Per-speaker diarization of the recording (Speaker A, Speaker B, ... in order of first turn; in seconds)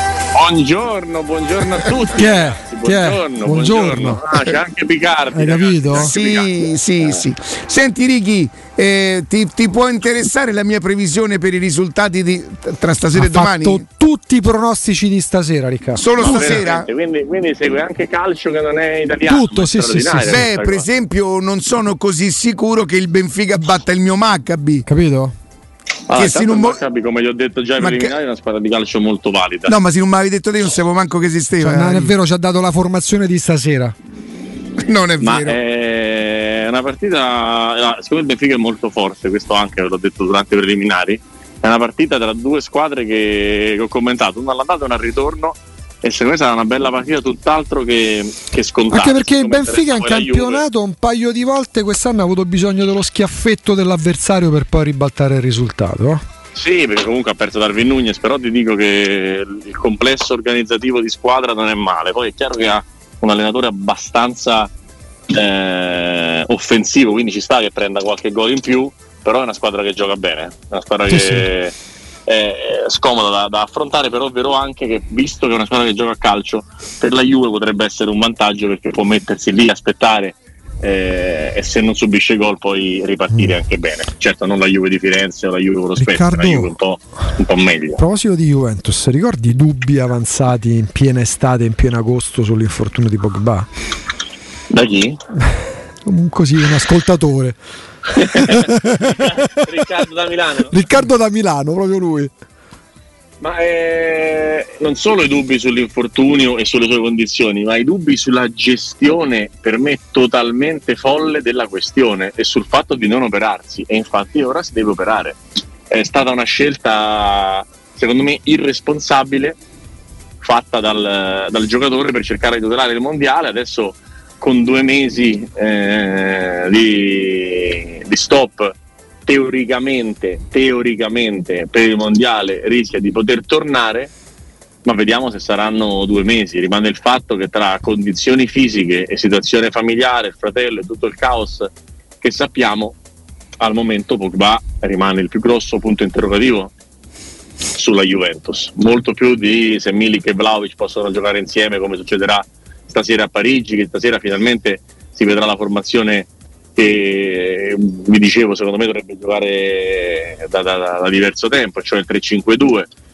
Speaker A: 0.3-7.2, 16.2-20.8, 26.1-29.7, 35.2-50.6, 56.5-64.7, 65.3-71.7, 72.3-88.0, 94.7-95.2, 98.2-100.8, 103.4-119.6, 120.4-134.1, 134.8-141.7, 142.2-143.0, 143.6-146.7, 147.7-162.9
Speaker B: 2.1-4.5, 5.3-6.1, 13.1-16.6, 19.3-20.4, 24.9-25.3, 31.6-33.9, 48.9-56.2, 71.1-71.5, 86.0-86.7, 88.0-93.7, 96.0-97.5, 98.1-99.5, 100.7-102.3
Speaker C: 5.9-13.8, 15.9-16.9, 20.2-24.9, 26.1-26.8, 27.8-28.1, 29.7-32.1, 34.8-35.6